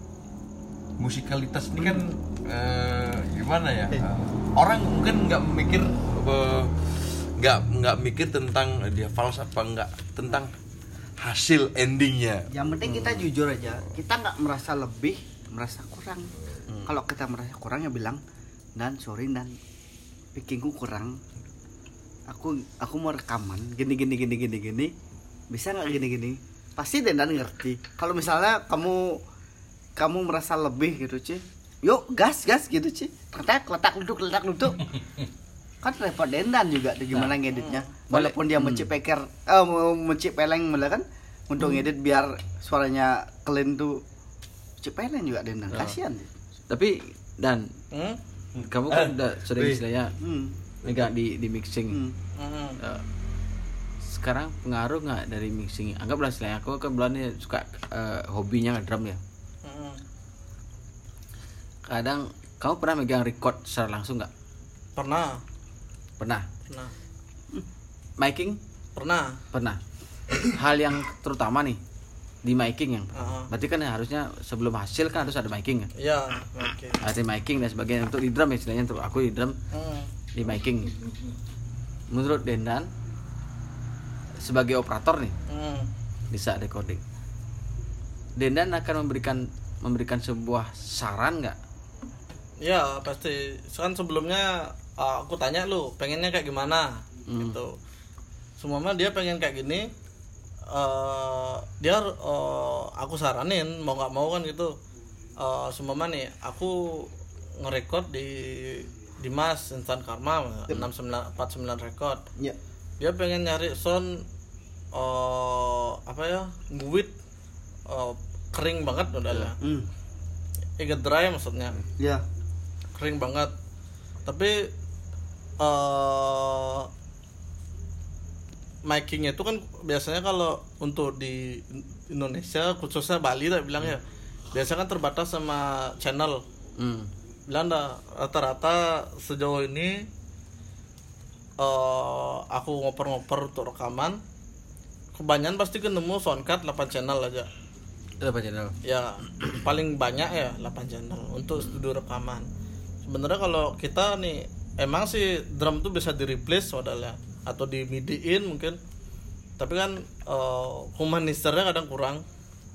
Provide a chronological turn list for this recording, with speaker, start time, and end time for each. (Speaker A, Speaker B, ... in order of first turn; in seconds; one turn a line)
Speaker A: 1.0-10.5
Speaker A: 11.2-12.4
Speaker B: 12.5-16.3
Speaker C: 12.9-13.2
Speaker B: 16.9-18.2
Speaker B: 18.8-19.6
Speaker B: 20.4-21.2
Speaker B: 22.3-24.9
Speaker B: 25.5-29.2
Speaker B: 30.0-34.9
Speaker B: 35.8-44.0
Speaker D: 37.6-37.9
Speaker C: 38.1-38.9
Speaker B: 44.8-46.3
Speaker C: 46.7-47.7
Speaker D: 47.9-48.2
Speaker A: 48.6-49.8
Speaker C: 48.7-50.1
Speaker B: 50.2-50.6
Speaker C: 50.8-52.0
Speaker B: 51.9-52.2
Speaker D: 52.4-52.8
Speaker C: 52.8-53.0
Speaker C: 54.0-59.2
Speaker D: 59.6-60.0
Speaker C: 61.9-64.3
Speaker D: 65.0-65.4
Speaker C: 66.2-66.5
Speaker C: 68.2-68.6
Speaker D: 69.0-69.4
Speaker C: 69.5-69.8
Speaker C: 70.4-71.8
Speaker C: 72.4-75.9
Speaker D: 73.2-73.5
Speaker D: 76.0-77.0
Speaker C: 77.0-79.6
Speaker D: 79.7-80.1
Speaker C: 80.3-81.1
Speaker C: 82.1-82.9
Speaker C: 84.4-85.3
Speaker D: 85.5-85.9
Speaker C: 86.3-87.0
Speaker C: 88.4-91.6
Speaker D: 92.6-97.7
Speaker C: 97.3-97.6
Speaker D: 98.6-99.9
Speaker D: 100.7-104.7
Speaker D: 105.4-112.2
Speaker D: 113.0-114.2
Speaker D: 114.9-117.1
Speaker D: 117.9-119.6
Speaker B: 119.6-119.9
Speaker D: 120.8-121.8
Speaker B: 122.0-122.2
Speaker D: 123.0-123.5
Speaker D: 124.2-124.6
Speaker D: 125.6-126.9
Speaker D: 128.9-136.4
Speaker C: 136.8-137.1
Speaker D: 137.5-140.1
Speaker D: 141.6-144.2
Speaker D: 145.2-147.5
Speaker C: 148.2-148.8
Speaker D: 148.8-152.5
Speaker D: 153.1-158.8
Speaker D: 159.6-162.2